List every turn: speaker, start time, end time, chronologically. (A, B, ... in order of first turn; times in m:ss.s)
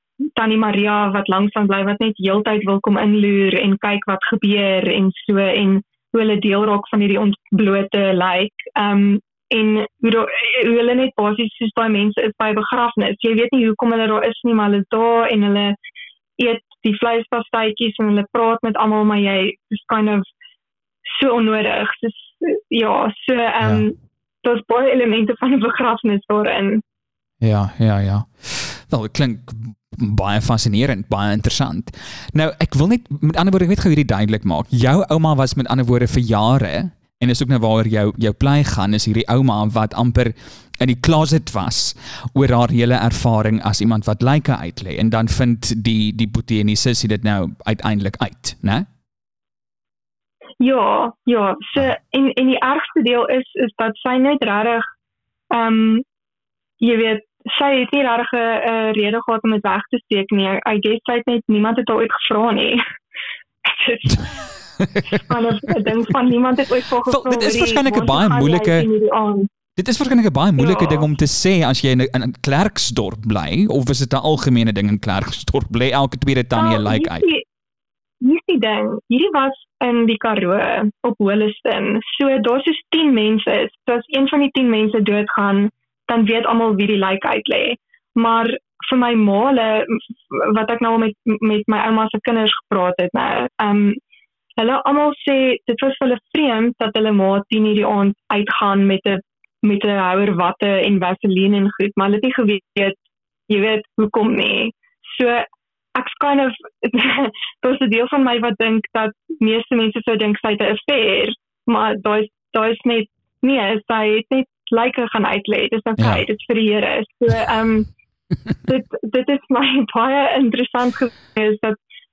0:00.4-0:15.8 A
0:16.4-0:20.3 A
0:21.1-0:26.8 A
0:23.6-0:23.9 B
0:27.4-0:48.9 B
0:50.6-0:54.8 A
0:55.5-0:56.0 A
0:56.8-1:02.8 A
1:03.6-1:04.3 A
1:04.8-1:05.7 B
1:05.1-1:09.5 A
1:07.1-1:08.9 B
1:09.8-1:17.3 B
1:10.6-1:11.1 A
1:16.6-1:17.4 A
1:18.2-1:34.0 A
1:34.6-1:43.0 A
1:43.5-1:57.9 A
1:56.0-1:56.3 B
1:58.7-2:01.8 A